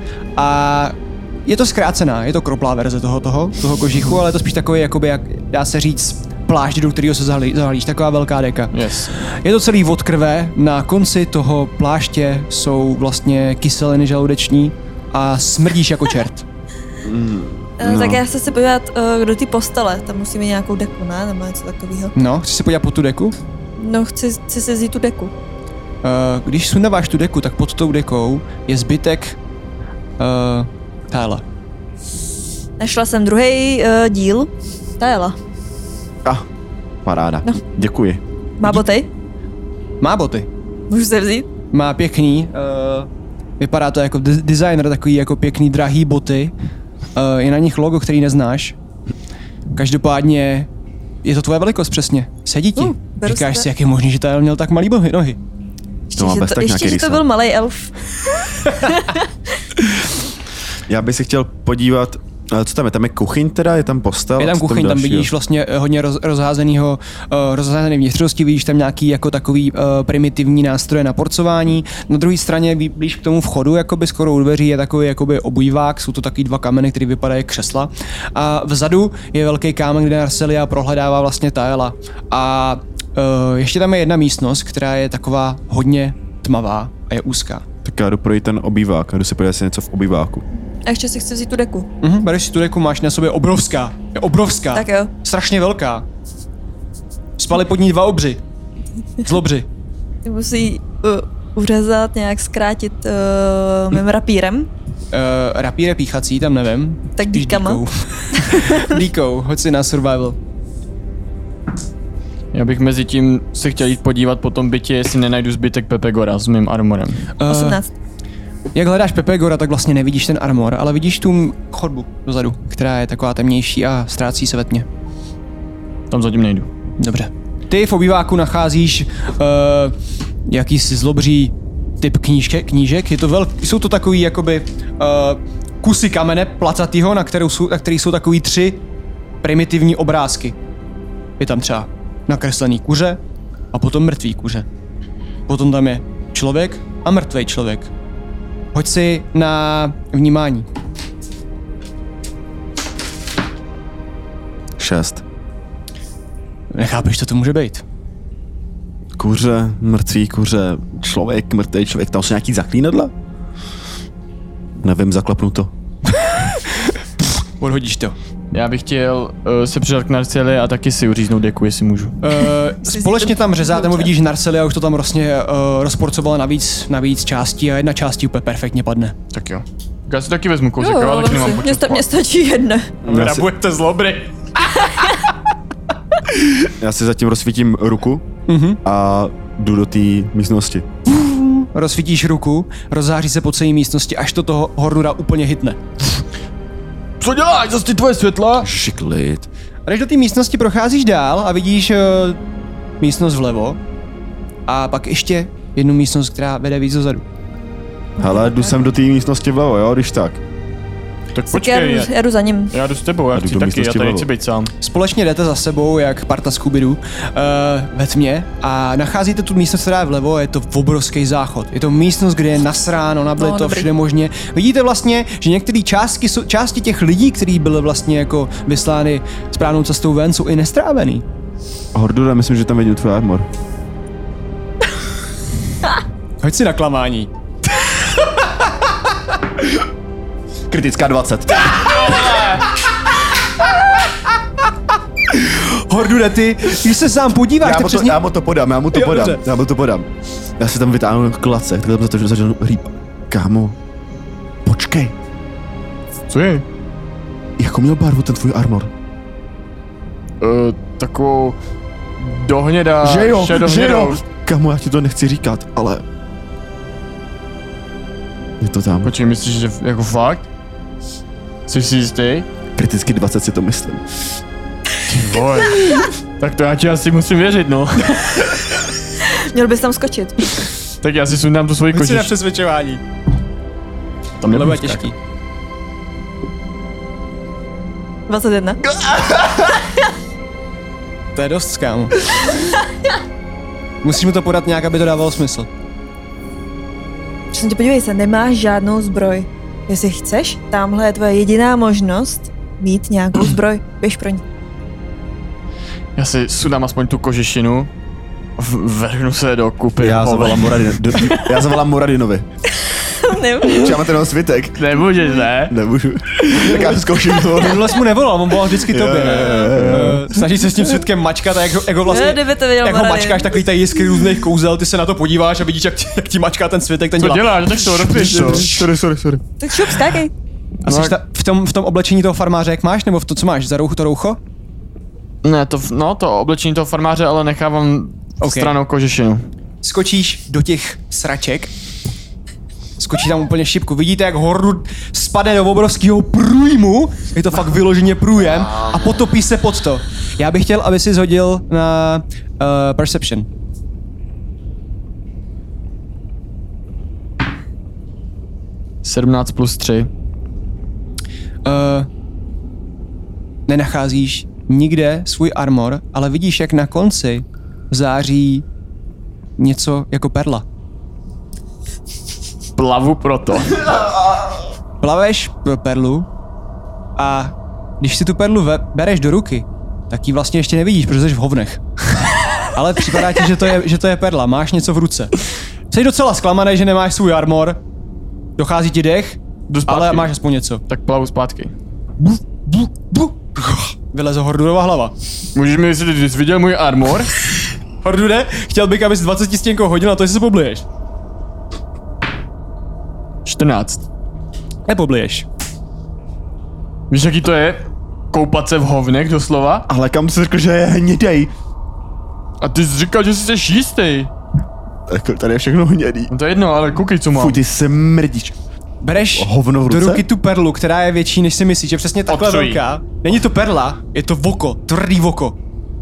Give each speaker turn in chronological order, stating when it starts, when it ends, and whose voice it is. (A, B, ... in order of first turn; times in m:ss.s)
0:00.4-0:16.4 A
0:08.7-0:09.1 B
0:17.0-0:18.2 C
0:17.8-0:22.1 D
0:22.1-0:23.4 A
0:23.8-0:25.3 D
0:26.0-0:29.4 A
0:30.2-0:31.4 A
0:32.8-0:35.4 D
0:37.0-0:38.2 C
0:38.6-0:39.1 D
0:40.0-0:40.5 A
0:40.9-0:41.5 D
0:41.7-0:43.1 A
0:43.6-0:46.5 A
0:47.1-0:48.8 A
0:49.7-0:50.7 A
0:51.2-0:55.4 A
0:52.8-0:53.7 D
0:56.1-0:59.3 D
0:56.1-0:57.2 C
1:00.9-1:05.3 C
1:04.4-1:27.6 A
1:27.8-1:30.4 C
1:30.8-1:31.9 D
1:32.0-1:36.0 A
1:34.7-1:35.1 D
1:37.4-1:38.4 A
1:39.2-1:39.7 A
1:40.2-1:44.7 D
1:45.1-1:50.4 A
1:47.2-1:47.8 D
1:48.4-1:48.8 D
1:52.5-1:57.3 B
1:57.4-1:57.8 A
1:57.5-1:57.9 D
1:58.7-2:04.8 A
2:06.1-2:06.7 B
2:07.0-2:09.9 A
2:10.4-2:18.8 A
2:19.4-2:20.6 A
2:21.4-2:23.2 A
2:23.7-2:24.7 A
2:25.5-2:27.9 A
2:28.7-2:30.7 A
2:34.8-2:35.2 C
2:36.7-2:37.8 A
2:39.2-2:43.1 C
2:44.8-2:45.7 C
2:47.6-2:48.2 A
2:48.5-2:52.4 B
2:52.2-2:59.1 A
2:52.8-2:54.1 D
2:59.3-3:02.1 B
3:00.8-3:02.9 D
3:03.0-3:03.5 C
3:03.0-3:04.6 B
3:06.8-3:08.2 C
3:08.5-3:08.8 A
3:08.8-3:10.8 C
3:11.1-3:15.8 A
3:17.2-3:18.7 B
3:18.6-3:19.5 C
3:19.8-3:22.4 A
3:23.0-3:23.8 A
3:24.7-3:27.2 A
3:28.2-3:28.8 D
3:28.2-3:30.4 C
3:31.3-3:32.1 B
3:31.5-3:32.7 D
3:32.7-3:34.7 B
3:33.3-3:34.3 C
3:34.8-3:51.2 A
3:43.4-3:43.9 D
3:51.9-3:53.5 C
3:56.4-3:57.3 A
4:00.7-4:02.3 C
4:01.8-4:02.6 B
4:05.3-4:08.2 A
4:07.6-4:10.1 C
4:08.9-4:09.4 A
4:10.6-4:13.8 C
4:14.6-4:15.1 C
4:16.3-4:16.6 B
4:17.6-4:18.9 C
4:20.4-4:21.6 B
4:22.2-4:24.2 B
4:23.0-4:26.0 C
4:28.6-4:29.1 C
4:29.0-4:30.5 B
4:31.7-4:32.5 B
4:32.8-4:34.0 C
4:35.1-4:38.9 B
4:39.2-4:40.6 D
4:41.0-4:42.3 B
4:41.9-4:43.0 A
4:44.4-4:45.0 B
4:44.5-4:45.1 A
4:48.3-4:48.8 D
4:49.0-4:49.6 C
4:51.3-4:52.1 A
4:54.0-4:55.7 A
4:57.5-5:04.4 D
5:06.2-5:07.9 B
5:08.6-5:11.5 B
5:10.0-5:12.4 C
5:12.8-5:14.0 D
5:13.6-5:15.0 C
5:14.8-5:15.8 B
5:15.6-5:18.0 C
5:16.6-5:16.8 B
5:17.6-5:28.8 A
5:18.8-5:20.2 C
5:19.6-5:20.2 B
5:22.0-5:23.6 D
5:27.2-5:30.0 B
5:29.6-5:30.3 D
5:30.8-5:34.4 A
5:30.8-5:31.2 B
5:35.4-5:39.5 B
5:38.4-5:38.8 A
5:39.8-5:41.7 A
5:43.0-5:53.5 A
5:59.0-6:00.1 B
6:01.6-6:02.1 A
6:03.7-6:08.6 A
6:09.6-6:10.6 A
6:12.8-6:13.9 B
6:13.9-6:14.4 C
6:15.0-6:16.3 A
6:17.2-6:21.8 A
6:22.6-6:25.3 A
6:25.9-6:27.8 A
6:28.6-6:30.8 A
6:29.7-6:30.3 B
6:30.9-6:31.7 B
6:32.2-6:35.1 A
6:35.5-6:37.4 B
6:38.0-6:40.8 A
6:43.4-6:44.0 B
6:44.8-6:45.4 A
6:47.1-6:49.9 B
6:49.9-6:51.5 C
6:52.6-6:54.3 B
6:55.1-6:56.3 C
6:56.3-6:57.6 B
6:57.3-6:58.6 C
6:59.0-7:05.6 A
6:59.3-7:00.2 C
7:02.3-7:02.8 B